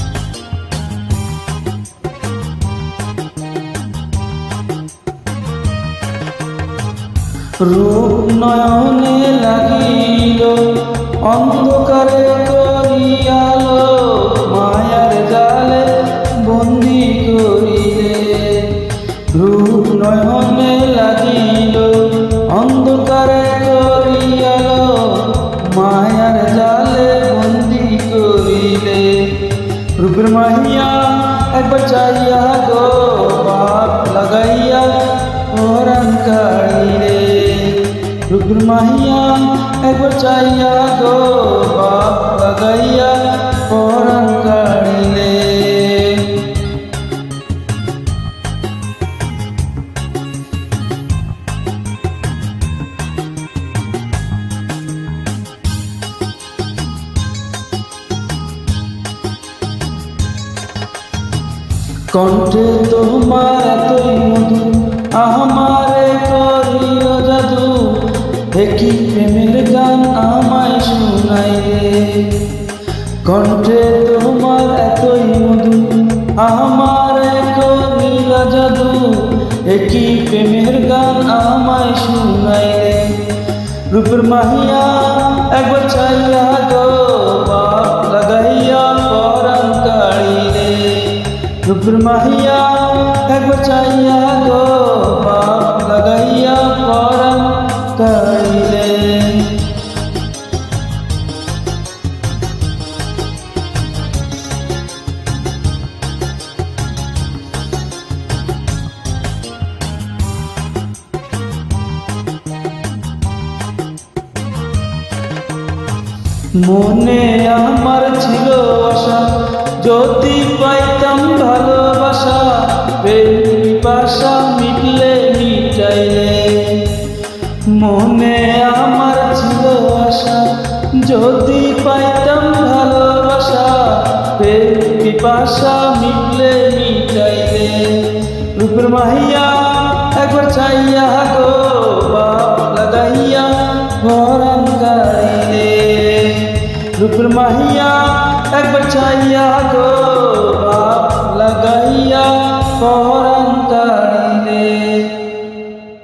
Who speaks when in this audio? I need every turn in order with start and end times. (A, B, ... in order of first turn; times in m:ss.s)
0:07.6-0:46.5 A
1:02.1-1:12.5 A
1:13.2-1:39.7 A
1:56.6-2:07.0 A
2:07.7-2:35.2 A